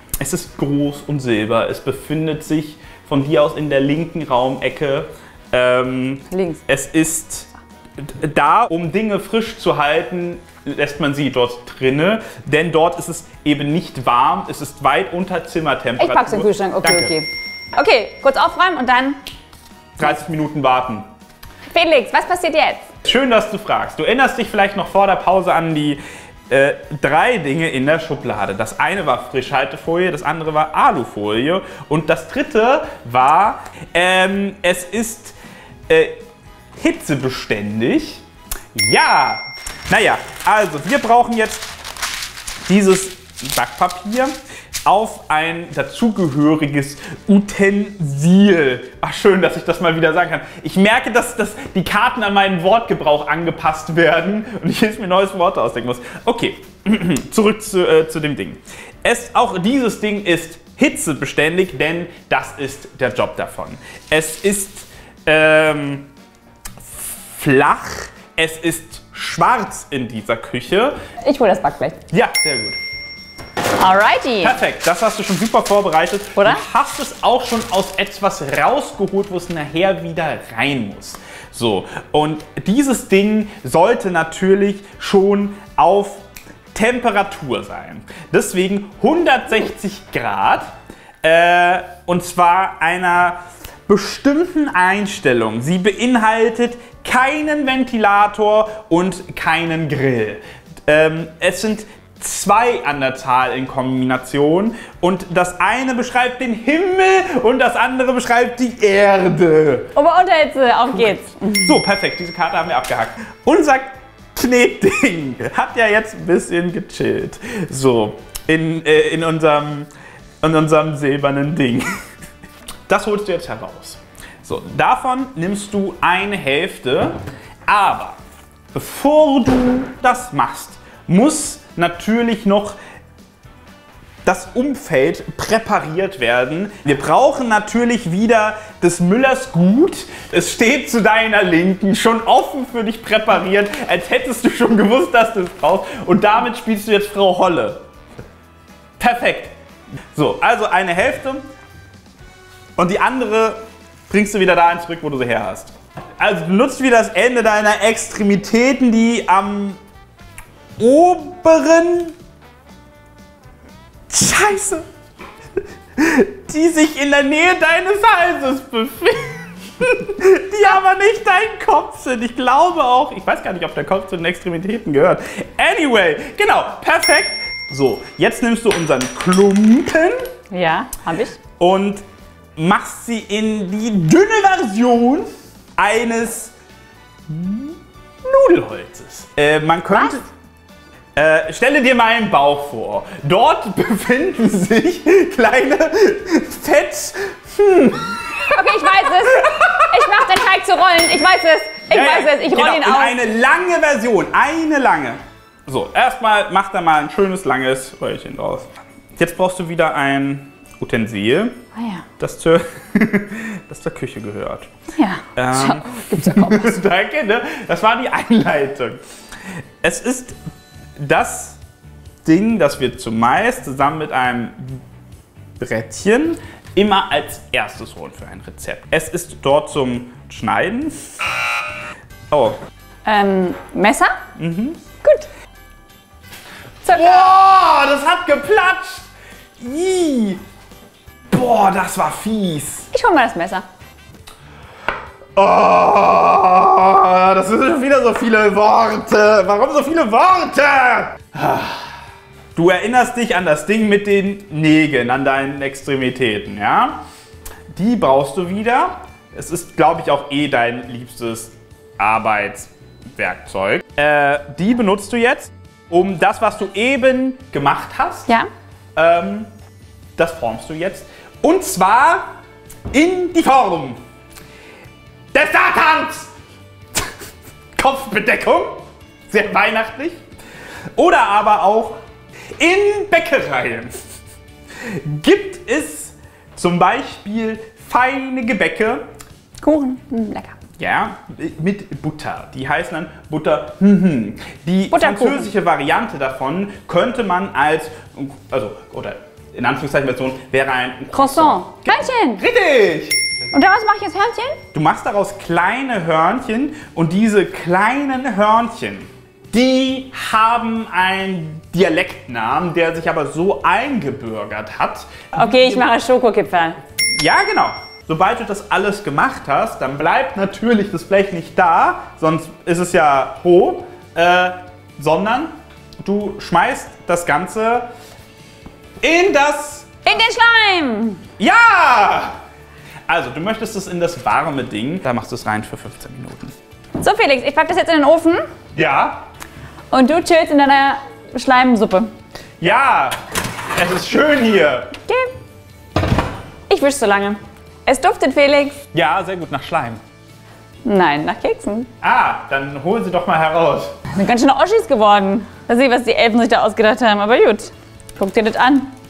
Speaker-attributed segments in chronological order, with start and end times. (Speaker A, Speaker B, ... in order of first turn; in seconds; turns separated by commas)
Speaker A: 0.2-17.1, Speaker B: 6.3-6.6, Speaker B: 16.0-19.2, Speaker A: 20.0-21.1, Speaker B: 21.7-22.9, Speaker A: 23.0-35.4, Speaker A: 35.9-36.2, Speaker A: 36.8-38.2, Speaker A: 38.7-41.7, Speaker A: 42.6-44.3, Speaker A: 44.8-66.1, Speaker A: 67.3-71.0, Speaker B: 71.2-72.0, Speaker A: 72.1-72.8, Speaker B: 73.8-74.5, Speaker A: 74.4-90.7, Speaker B: 76.3-76.6, Speaker A: 91.2-109.9, Speaker B: 109.9-111.7, Speaker A: 111.4-119.9, Speaker A: 120.4-121.8, Speaker A: 122.9-128.2, Speaker A: 128.7-132.8, Speaker A: 134.2-147.8, Speaker A: 149.0-149.5, Speaker A: 150.1-151.5, Speaker A: 152.8-159.8, Speaker A: 160.8-162.2, Speaker A: 164.1-164.8, Speaker A: 165.9-180.3, Speaker B: 180.5-181.4, Speaker A: 181.6-182.0, Speaker A: 182.6-186.5, Speaker A: 187.3-190.3, Speaker B: 189.9-190.2, Speaker A: 191.2-200.3, Speaker B: 198.5-203.2, Speaker A: 201.9-211.6, Speaker B: 211.7-212.0, Speaker A: 212.2-214.7, Speaker B: 214.9-216.7, Speaker A: 215.3-219.0, Speaker A: 219.8-220.4, Speaker A: 220.9-221.6, Speaker A: 222.2-224.8, Speaker A: 225.6-231.2, Speaker A: 232.3-232.6, Speaker B: 233.1-234.2, Speaker A: 234.3-234.8, Speaker A: 236.8-239.1, Speaker B: 236.8-237.3, Speaker A: 239.6-240.4, Speaker A: 241.3-242.9, Speaker B: 242.9-243.6, Speaker A: 245.3-251.9, Speaker A: 252.5-257.0, Speaker A: 257.7-268.3, Speaker A: 268.9-269.5, Speaker A: 270.2-272.3, Speaker A: 272.9-274.0, Speaker A: 275.3-276.3, Speaker A: 277.8-280.2, Speaker A: 280.9-282.0, Speaker A: 282.6-284.0, Speaker A: 284.8-289.0, Speaker B: 289.6-290.6, Speaker A: 290.8-303.2, Speaker B: 294.9-295.5, Speaker B: 301.1-302.4, Speaker B: 303.5-304.6, Speaker A: 304.7-315.8, Speaker B: 315.3-316.8, Speaker A: 317.1-327.9, Speaker A: 329.0-329.9, Speaker B: 330.0-331.2, Speaker A: 331.4-332.4, Speaker A: 333.1-336.5, Speaker B: 337.0-338.4, Speaker A: 338.7-339.2, Speaker B: 339.9-342.1, Speaker A: 342.6-343.1, Speaker A: 343.7-344.9, Speaker B: 345.1-345.3, Speaker B: 346.7-348.8, Speaker A: 348.9-350.0, Speaker B: 350.8-351.9, Speaker A: 352.0-354.0, Speaker B: 354.1-358.9